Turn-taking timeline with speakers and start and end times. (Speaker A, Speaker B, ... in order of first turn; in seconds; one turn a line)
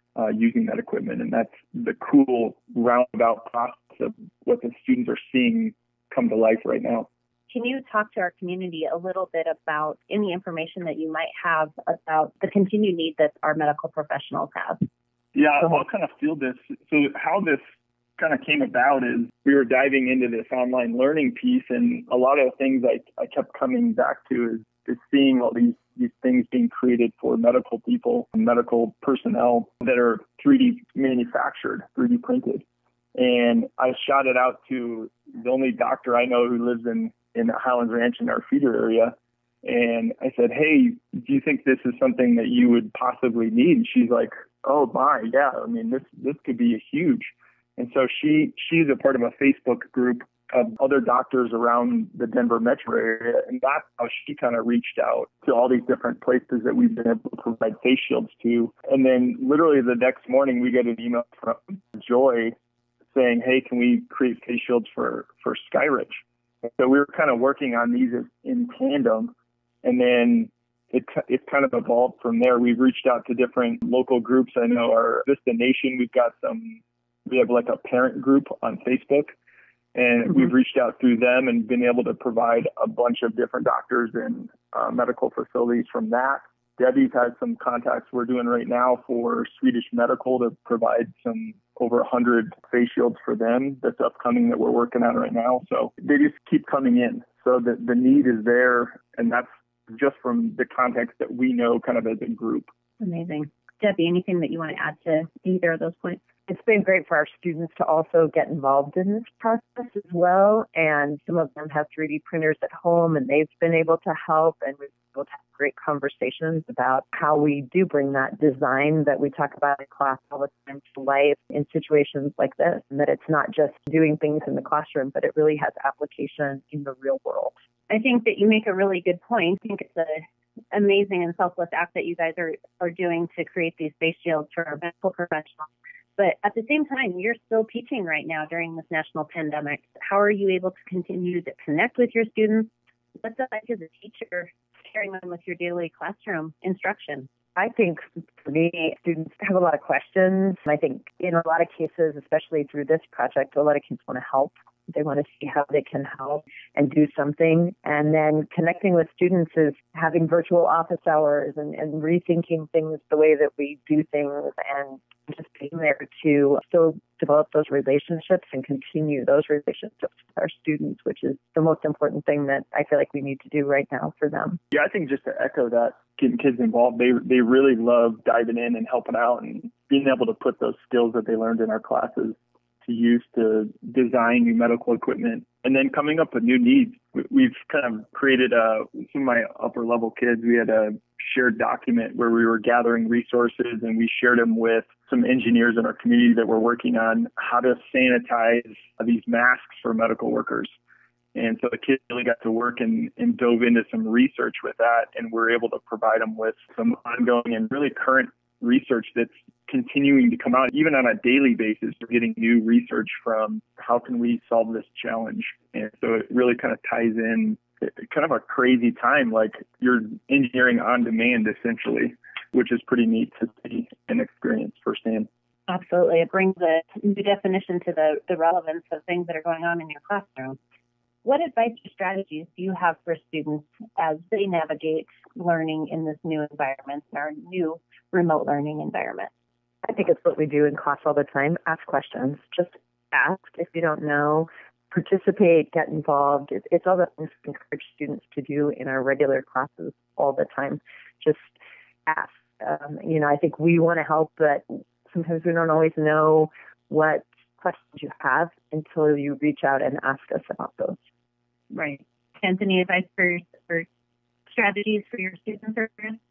Speaker A: 0.1-7.1
Speaker B: 7.5-14.8
Speaker A: 15.3-17.6
Speaker A: 18.2-62.5
Speaker A: 63.1-69.3
Speaker A: 69.8-79.3
Speaker A: 79.9-102.7
Speaker B: 103.0-106.2
Speaker C: 106.5-127.5
Speaker B: 127.9-147.3
Speaker C: 147.6-174.6
Speaker A: 174.7-200.7
Speaker A: 201.3-225.3
Speaker B: 225.7-230.6
Speaker B: 231.2-239.3
Speaker C: 239.8-251.5
Speaker C: 252.1-261.0
Speaker B: 261.7-263.9
Speaker B: 264.5-266.2